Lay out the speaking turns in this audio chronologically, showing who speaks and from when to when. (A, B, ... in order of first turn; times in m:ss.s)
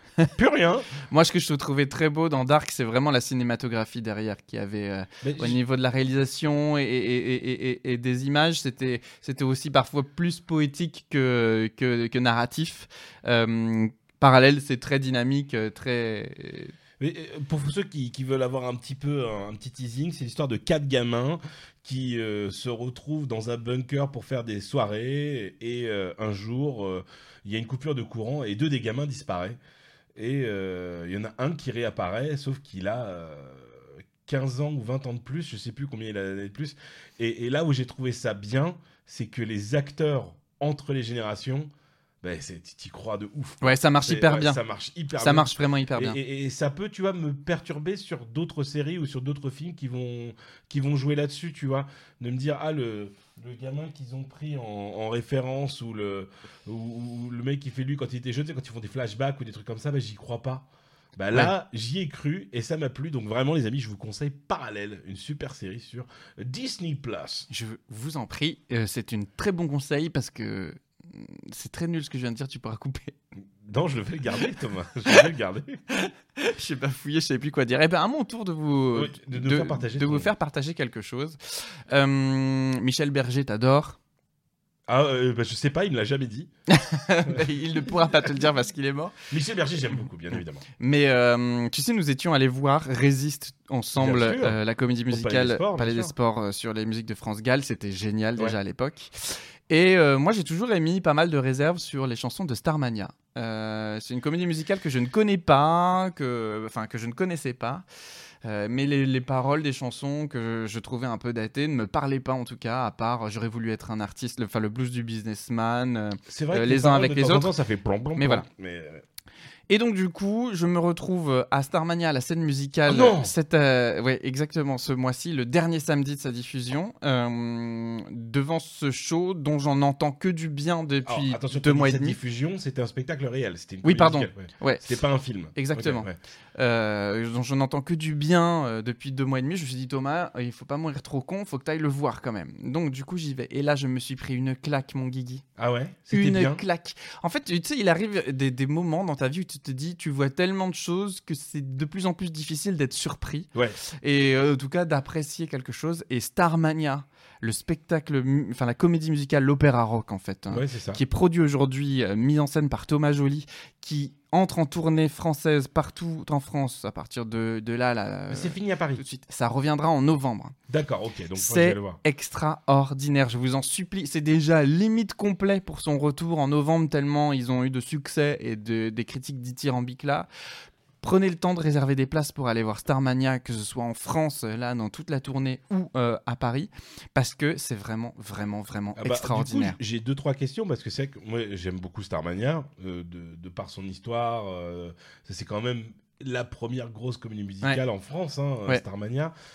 0:00.3-0:00.9 A
0:01.1-0:16.7 B
0:05.2-0:05.6 A
0:17.0-0:29.6 A
0:30.1-0:41.7 A
0:42.2-1:07.5 A
0:43.6-0:44.6 B
0:45.2-0:46.2 B
1:07.5-1:13.1 B
1:13.6-1:15.8 A
1:16.0-1:24.0 B
1:18.9-1:20.3 A
1:24.9-1:26.5 A
1:26.7-1:29.2 B
1:27.2-1:28.2 A
1:29.3-1:30.6 A
1:30.8-1:47.8 B
1:34.0-1:36.1 A
1:48.4-1:57.5 B
1:56.3-1:59.0 A
1:58.2-1:58.4 B
1:59.7-2:12.2 B
2:02.9-2:03.3 A
2:11.0-2:16.2 A
2:13.8-2:14.8 B
2:15.6-2:25.4 B
2:25.6-2:26.6 A
2:26.1-2:33.5 B
2:33.5-2:33.8 A
2:34.0-2:50.5 B
2:40.5-2:41.0 A
2:48.3-2:49.0 A
2:50.7-2:52.0 A
2:51.4-3:00.3 B
3:01.0-3:09.8 B
3:09.0-3:19.3 A